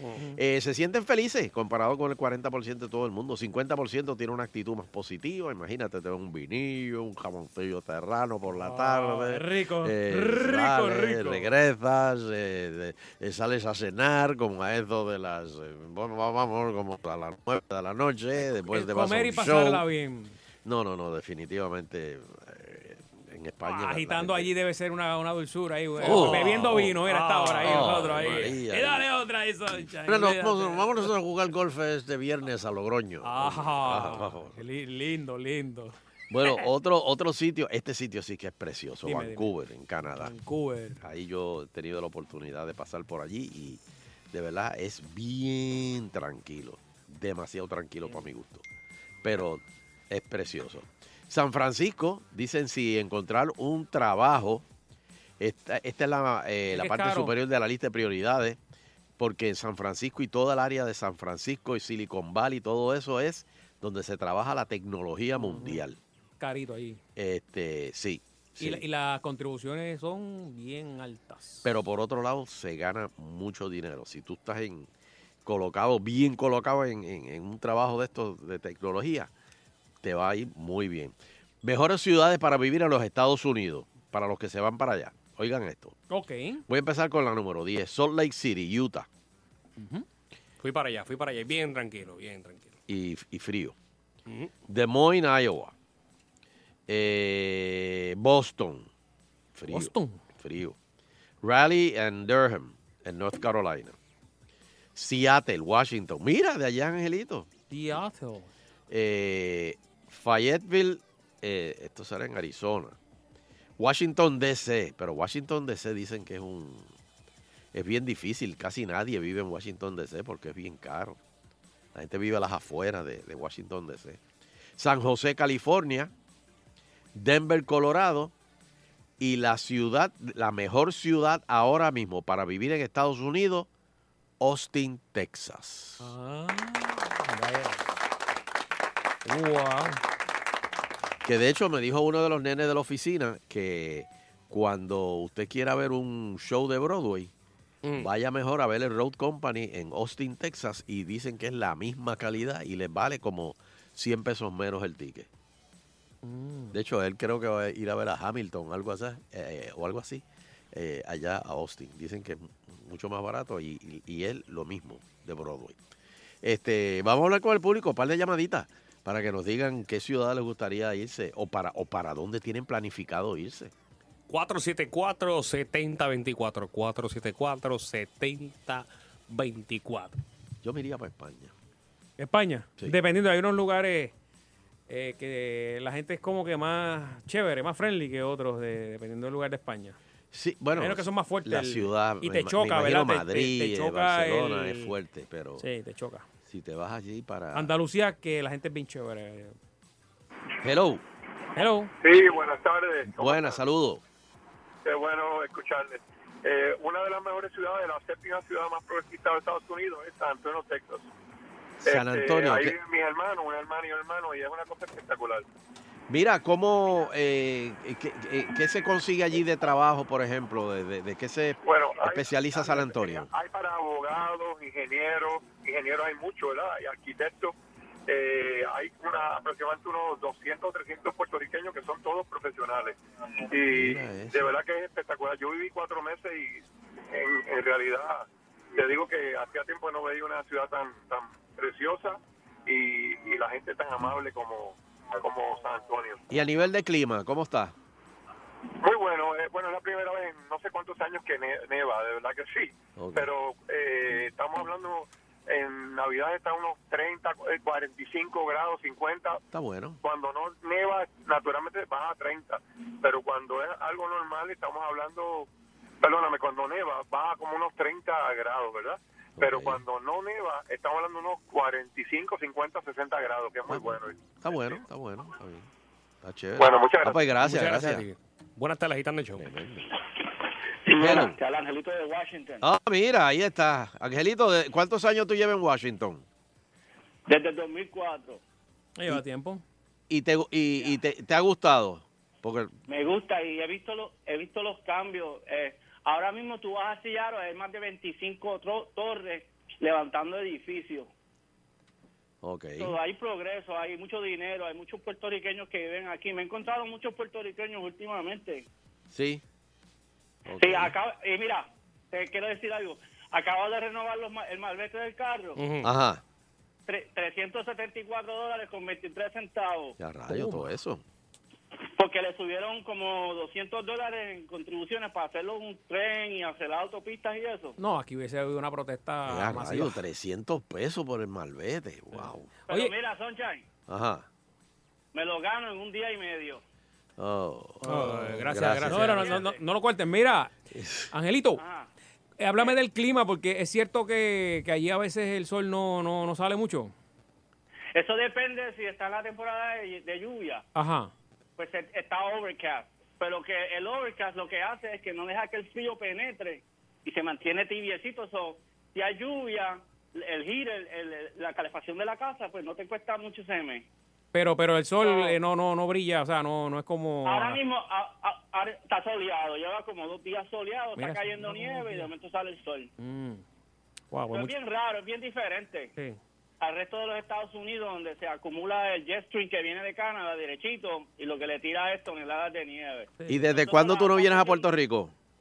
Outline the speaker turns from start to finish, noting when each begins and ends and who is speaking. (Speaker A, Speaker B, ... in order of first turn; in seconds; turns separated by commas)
Speaker A: 0.3-19.8, Speaker B: 8.5-11.5, Speaker B: 18.7-20.4, Speaker A: 20.6-24.5, Speaker B: 23.7-31.1, Speaker C: 26.0-28.5, Speaker A: 26.0-26.9, Speaker A: 27.6-29.1, Speaker A: 29.7-34.6, Speaker B: 33.2-36.0, Speaker A: 36.3-40.3, Speaker B: 39.0-39.5, Speaker B: 40.2-41.0, Speaker A: 41.0-43.8, Speaker A: 44.3-48.6, Speaker A: 49.2-54.6, Speaker A: 55.4-58.6, Speaker B: 56.7-57.4, Speaker A: 59.2-66.0, Speaker B: 65.4-65.8, Speaker B: 66.4-67.0, Speaker A: 67.2-68.8, Speaker B: 68.6-71.7, Speaker A: 71.6-74.9, Speaker A: 75.5-79.3, Speaker A: 80.0-86.0, Speaker B: 86.1-86.7, Speaker A: 86.7-89.1, Speaker B: 89.8-90.1, Speaker C: 90.6-92.8, Speaker A: 92.9-93.8, Speaker A: 94.7-95.7, Speaker A: 96.9-98.9, Speaker A: 99.6-100.8, Speaker B: 99.7-100.2, Speaker A: 101.4-104.0, Speaker A: 105.0-107.5, Speaker B: 107.7-108.5, Speaker A: 108.9-113.0, Speaker A: 113.8-116.9, Speaker A: 117.7-121.2, Speaker A: 122.0-124.2, Speaker A: 124.8-126.1, Speaker A: 127.1-128.3, Speaker A: 129.2-133.7, Speaker A: 134.4-136.1, Speaker B: 136.0-137.9, Speaker B: 139.2-140.0, Speaker A: 141.2-147.3, Speaker A: 148.0-155.3, Speaker B: 156.2-156.8, Speaker A: 156.7-165.8, Speaker A: 166.4-173.7, Speaker C: 174.3-180.2, Speaker A: 180.6-181.5, Speaker B: 182.2-184.1, Speaker B: 184.9-190.0, Speaker A: 190.3-195.6, Speaker B: 190.8-194.9, Speaker B: 195.6-196.3, Speaker A: 196.5-197.7, Speaker B: 197.5-199.6, Speaker A: 200.6-201.0, Speaker B: 201.6-201.9, Speaker D: 202.0-203.6, Speaker A: 203.0-204.0, Speaker D: 204.8-211.1, Speaker A: 211.8-212.8, Speaker D: 211.8-215.5, Speaker A: 216.1-223.3, Speaker D: 221.6-227.6, Speaker D: 228.1-233.0, Speaker D: 233.5-246.2, Speaker A: 233.7-234.5, Speaker A: 246.3-247.7, Speaker D: 248.8-259.4, Speaker A: 253.0-253.3, Speaker A: 259.5-260.0, Speaker D: 260.0-265.5, Speaker D: 266.0-274.2, Speaker A: 269.4-269.8, Speaker A: 273.7-275.7, Speaker A: 276.2-278.1, Speaker D: 276.6-277.2, Speaker C: 277.4-279.4, Speaker A: 279.4-279.9, Speaker E: 280.9-282.6, Speaker A: 281.0-281.4, Speaker A: 282.6-286.2, Speaker E: 287.3-288.4, Speaker B: 289.0-289.6, Speaker A: 290.1-292.7, Speaker E: 292.9-301.1, Speaker A: 302.4-302.9, Speaker E: 302.8-308.7, Speaker A: 309.1-309.4, Speaker A: 310.5-310.9, Speaker E: 310.6-315.6, Speaker C: 315.6-315.9, Speaker A: 315.8-316.2, Speaker E: 316.9-319.9, Speaker A: 320.0-321.0, Speaker B: 320.3-320.7, Speaker E: 322.0-327.8, Speaker B: 327.8-330.0, Speaker A: 329.3-332.5, Speaker B: 332.1-332.9, Speaker E: 332.7-333.6, Speaker A: 333.9-334.3, Speaker E: 335.1-336.6, Speaker A: 337.2-339.2, Speaker B: 337.8-340.5, Speaker C: 337.9-339.4, Speaker E: 339.1-339.6, Speaker A: 340.7-341.1, Speaker B: 341.1-341.6, Speaker E: 341.6-341.9, Speaker B: 342.4-346.9, Speaker E: 347.9-350.6, Speaker B: 350.8-351.1, Speaker E: 351.6-363.9, Speaker B: 364.3-367.6, Speaker E: 365.0-365.4, Speaker E: 367.2-372.9, Speaker B: 371.0-372.1, Speaker B: 373.0-373.4, Speaker B: 374.1-374.5, Speaker E: 374.3-375.9, Speaker E: 376.6-384.7, Speaker B: 383.2-383.5, Speaker A: 383.3-385.1